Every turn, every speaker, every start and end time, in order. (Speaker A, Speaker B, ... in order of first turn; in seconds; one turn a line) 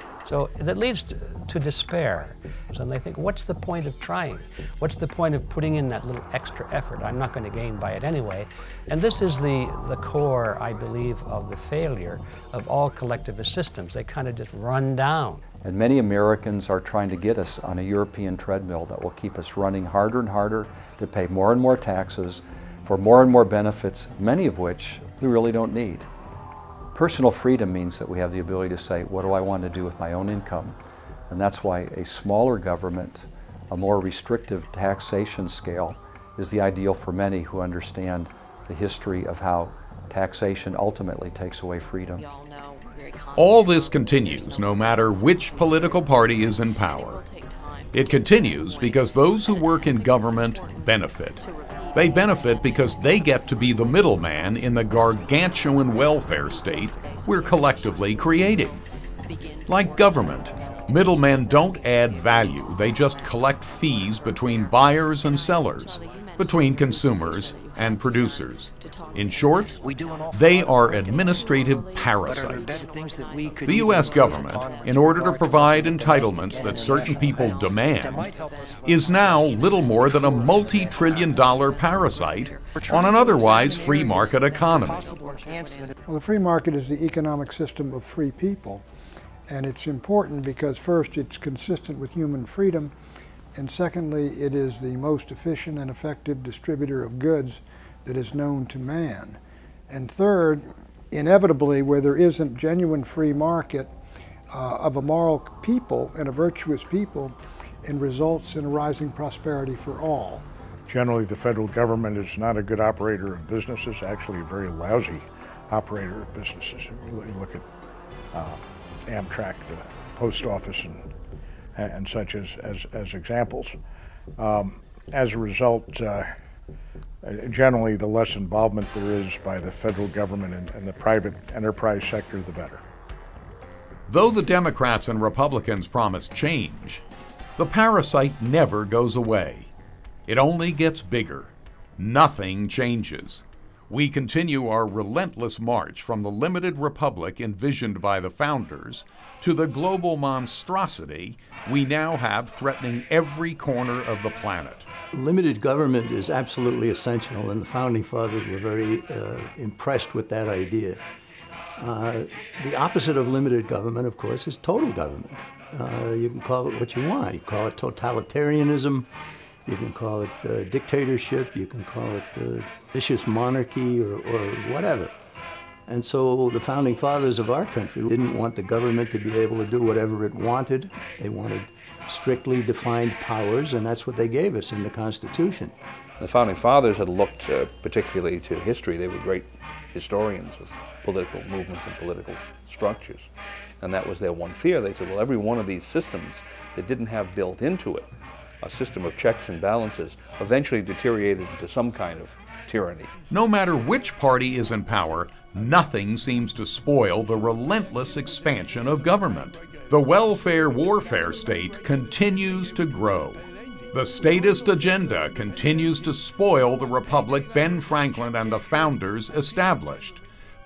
Speaker A: 0.2-15.4
Speaker B: 15.6-26.1
Speaker B: 26.9-30.8
Speaker B: 31.3-42.3
Speaker C: 43.4-47.2
Speaker C: 47.9-58.8
Speaker C: 59.7-69.8
Speaker C: 70.3-72.8
Speaker C: 73.6-78.3
Speaker C: 78.8-85.2
Speaker D: 86.1-88.8
Speaker D: 89.5-92.9
Speaker D: 93.5-103.9
Speaker D: 104.5-110.4
Speaker E: 110.9-117.7
Speaker E: 118.3-121.1
Speaker E: 121.8-123.8
Speaker E: 124.4-126.3
Speaker E: 127.2-132.8
Speaker C: 134.1-137.0
Speaker C: 137.6-139.7
Speaker C: 140.3-154.9
Speaker F: 155.1-161.0
Speaker F: 161.8-169.1
Speaker F: 169.7-175.1
Speaker F: 175.9-185.7
Speaker G: 186.2-193.3
Speaker G: 193.8-198.1
Speaker G: 198.6-203.1
Speaker C: 203.3-220.2